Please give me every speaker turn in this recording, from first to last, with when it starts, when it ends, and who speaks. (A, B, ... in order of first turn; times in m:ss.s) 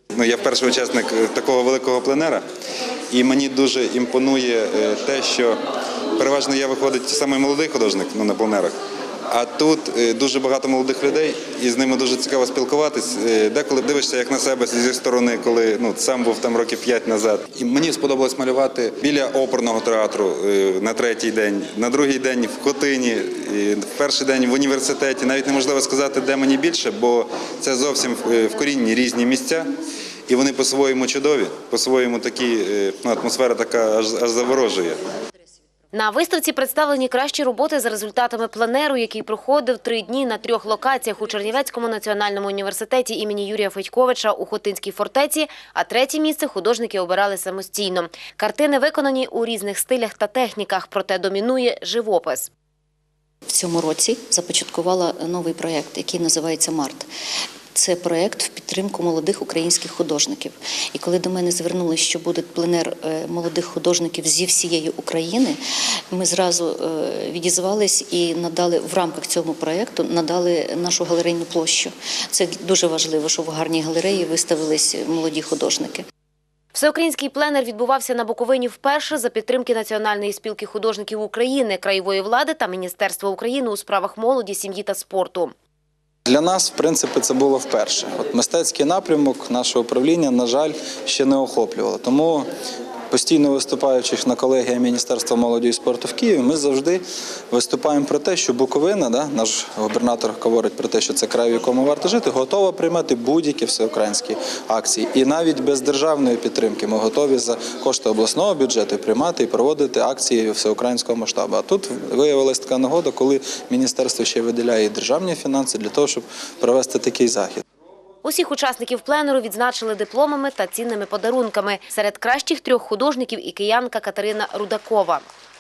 0:00.2-0:02.4 A
0:03.1-0:05.6 A
0:06.2-0:08.7 A
0:09.3-0:29.7 A
0:30.3-0:35.0 A
0:35.9-0:52.5 B
0:53.5-0:57.1 C
0:57.7-1:05.6 C
1:06.1-1:16.0 C
1:16.7-1:25.5 B
1:26.3-1:32.5 D
1:33.1-1:57.6 D
1:58.2-2:05.3 B